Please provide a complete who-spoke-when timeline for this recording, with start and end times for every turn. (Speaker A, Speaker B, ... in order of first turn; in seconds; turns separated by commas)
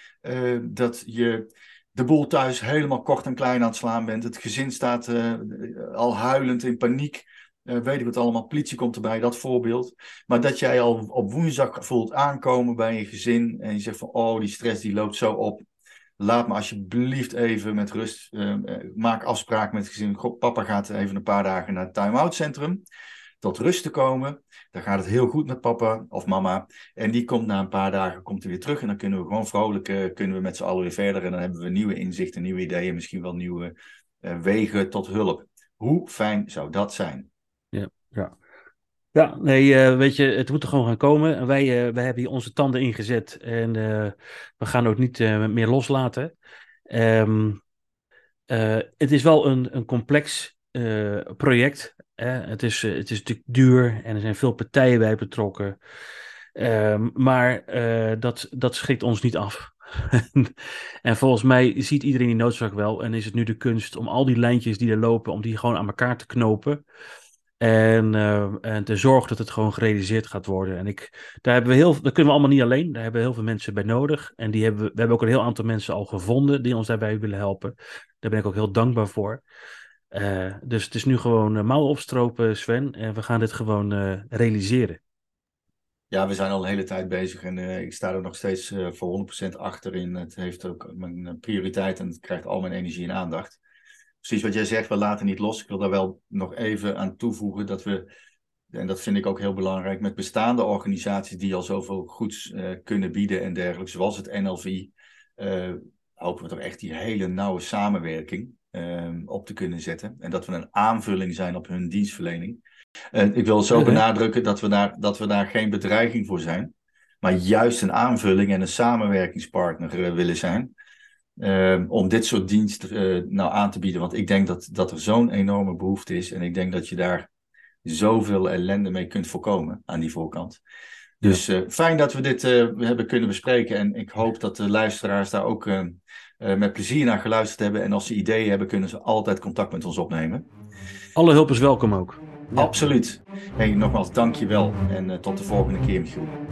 Speaker A: 0.2-15.6, Speaker A: 16.2-22.8, Speaker A: 23.4-37.3, Speaker B: 37.7-38.4, Speaker B: 39.1-46.3, Speaker B: 46.9-47.6, Speaker B: 48.5-55.8, Speaker B: 56.5-66.8, Speaker B: 67.6-79.4, Speaker B: 80.1-85.0, Speaker A: 86.1-93.6, Speaker A: 94.2-98.1, Speaker A: 98.7-112.6, Speaker A: 113.1-120.7, Speaker B: 113.7-114.0, Speaker A: 121.4-127.3, Speaker A: 127.8-130.6, Speaker A: 131.2-140.5, Speaker B: 141.2-142.8, Speaker A: 142.6-146.3